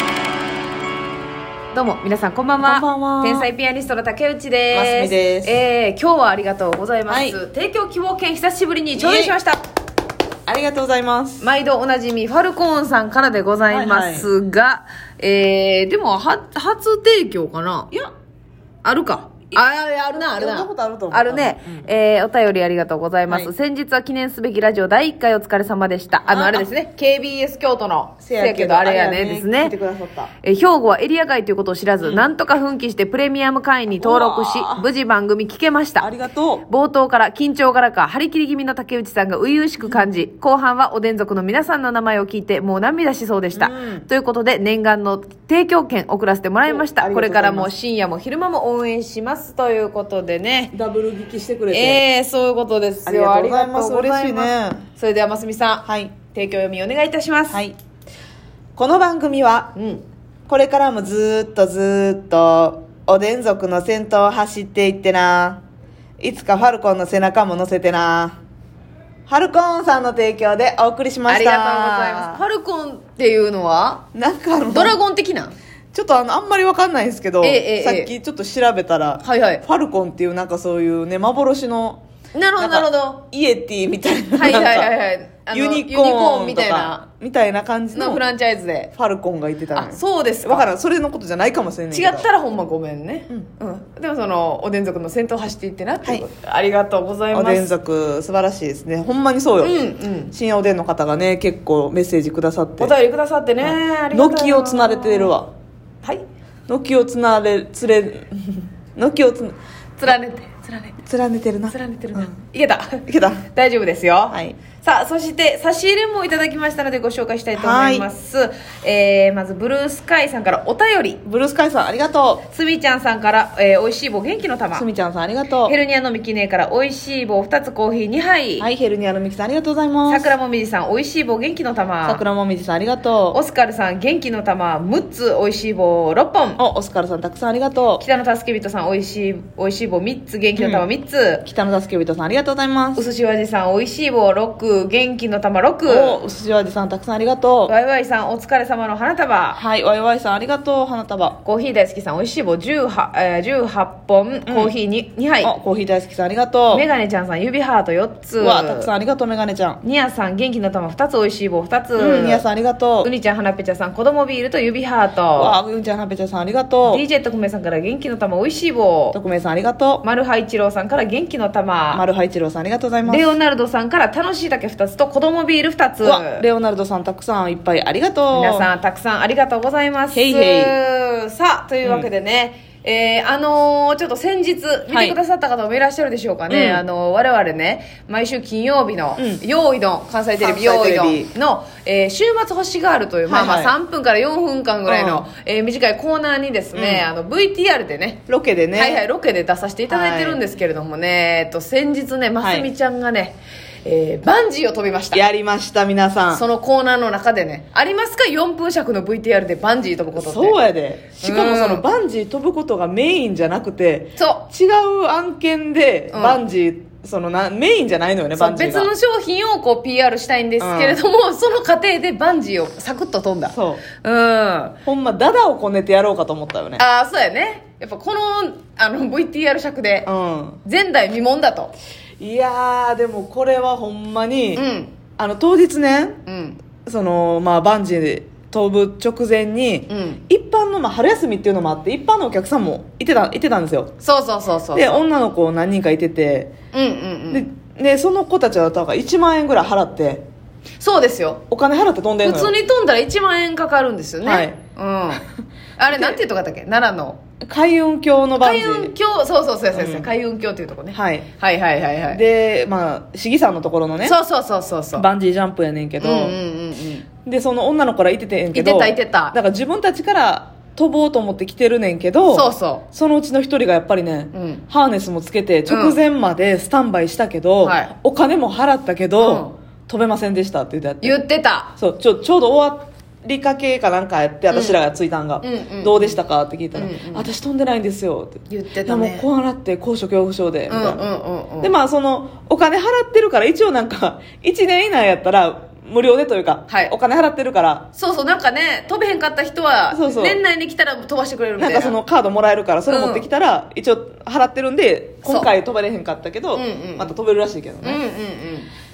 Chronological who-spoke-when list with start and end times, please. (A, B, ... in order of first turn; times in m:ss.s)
0:01.7-0:09.6 A
0:02.6-0:03.5 B
0:04.7-0:05.6 B
0:07.1-0:07.4 B
0:09.0-0:09.4 B
0:10.5-0:11.5 B
0:11.4-0:17.9 A
0:13.7-0:14.3 B
0:18.8-0:29.7 A
0:20.4-0:21.8 B
0:26.2-0:26.7 B
0:28.2-0:30.3 B
0:30.4-0:36.1 A
0:32.0-0:32.3 B
0:34.0-0:34.9 B
0:36.0-0:36.7 B
0:36.7-0:50.7 A
0:43.5-0:44.1 B
0:46.7-0:47.7 B
0:50.7-0:52.0 B
0:51.7-0:57.6 A
0:53.0-0:54.8 B
0:55.8-0:56.2 B
0:57.5-0:57.8 B
0:58.8-0:59.7 B
0:59.8-1:00.0 A
1:00.5-1:05.6 B
1:06.2-1:08.4 B
1:09.3-1:12.4 B
1:11.3-1:14.0 A
1:14.1-1:15.0 B
1:14.7-1:15.5 A
1:15.9-1:22.0 B
1:17.4-1:18.1 A
1:19.2-1:19.6 A
1:22.3-1:23.2 A
1:22.6-1:24.9 B
1:24.4-1:27.0 A
1:25.5-1:28.2 B
1:27.9-1:28.9 A
1:29.0-1:32.3 B
1:29.7-1:30.7 A
1:31.9-1:37.7 A
1:37.3-1:39.8 B
1:39.6-1:40.3 A
1:40.3-1:42.9 B
1:42.8-1:45.4 A
1:43.6-1:45.5 B
1:46.7-1:49.6 B
1:50.0-1:51.0 A
1:51.0-1:52.3 B
1:51.7-2:01.2 A
1:53.1-1:53.4 B
1:54.3-1:54.6 B
1:57.6-1:58.1 B
2:01.3-2:02.4 B
2:02.5-2:04.9 A
2:04.8-2:05.8 B
2:05.7-2:08.7 A
2:08.6-2:10.3 B
2:10.1-2:12.2 A
2:12.1-2:13.4 B
2:13.3-2:16.6 A
2:16.6-2:18.0 B
2:18.0-2:21.4 A
2:20.6-2:20.9 B
2:21.4-2:23.0 B
2:23.0-2:26.2 A
2:25.9-2:27.7 B
2:27.7-2:29.6 A
2:29.6-2:31.4 B
2:31.4-2:35.5 A
2:34.5-2:34.7 B
2:35.4-2:36.8 B
2:36.7-2:38.9 A
2:38.4-2:39.8 B
2:39.8-2:42.4 A
2:42.0-2:43.1 B
2:43.0-2:45.6 A
2:45.4-2:47.0 B
2:46.8-2:49.2 A
2:49.1-2:50.0 B
2:50.0-2:52.0 A
2:51.9-2:53.3 B
2:53.1-2:56.4 A
2:56.0-2:58.7 B
2:58.3-3:18.2 A
3:00.1-3:00.8 B
3:01.8-3:02.1 B
3:04.9-3:05.2 B
3:06.5-3:06.8 B
3:10.4-3:11.3 B
3:13.3-3:13.7 B
3:14.9-3:15.2 B
3:16.8-3:17.1 B
3:18.3-3:19.0 B
3:18.7-3:25.2 A
3:19.9-3:20.4 B
3:22.4-3:22.7 B
3:25.1-3:26.4 B
3:26.3-3:30.6 A
3:30.2-3:38.9 B
3:31.2-3:31.8 A
3:34.2-3:34.4 A
3:36.1-3:36.4 A
3:38.4-3:44.8 A
3:40.6-3:41.0 B
3:43.5-3:43.8 B
3:44.8-3:46.8 B
3:46.8-3:50.1 A
3:50.1-3:50.6 B
3:50.6-3:51.7 A
3:52.2-3:54.7 B
3:54.6-3:55.0 A
3:55.2-3:56.2 B
3:56.3-3:56.6 A
3:56.8-4:03.9 B
3:59.9-4:00.2 A
4:04.0-4:05.0 A
4:04.8-4:06.5 B
4:06.7-4:07.4 A
4:07.3-4:10.2 B
4:10.8-4:11.4 A
4:11.5-4:12.6 B
4:12.2-4:15.3 A
4:14.2-4:14.6 B
4:15.8-4:17.2 A
4:15.9-4:16.2 B
4:17.4-4:18.9 B
4:18.4-4:22.2 A
4:19.7-4:20.1 B
4:20.9-4:21.3 B
4:22.1-4:24.2 B
4:24.0-4:25.1 A
4:25.0-4:26.4 B
4:26.0-4:27.1 A
4:27.3-4:41.2 B
4:28.5-4:29.4 A
4:32.3-4:32.8 A
4:34.3-4:34.6 A
4:35.7-4:36.0 A
4:37.6-4:37.9 A
4:39.2-4:39.6 A
4:41.0-4:41.7 A
4:41.8-4:51.0 B
4:44.5-4:44.8 A
4:45.4-4:46.2 A
4:46.7-4:47.3 A
4:48.5-4:49.2 A
4:50.7-4:51.7 A
4:51.6-4:57.9 B
4:57.9-5:02.0 A
4:59.9-5:00.4 B
5:01.6-5:08.0 B
5:02.9-5:03.3 A
5:05.2-5:05.5 A
5:06.5-5:07.1 A
5:07.8-5:08.7 A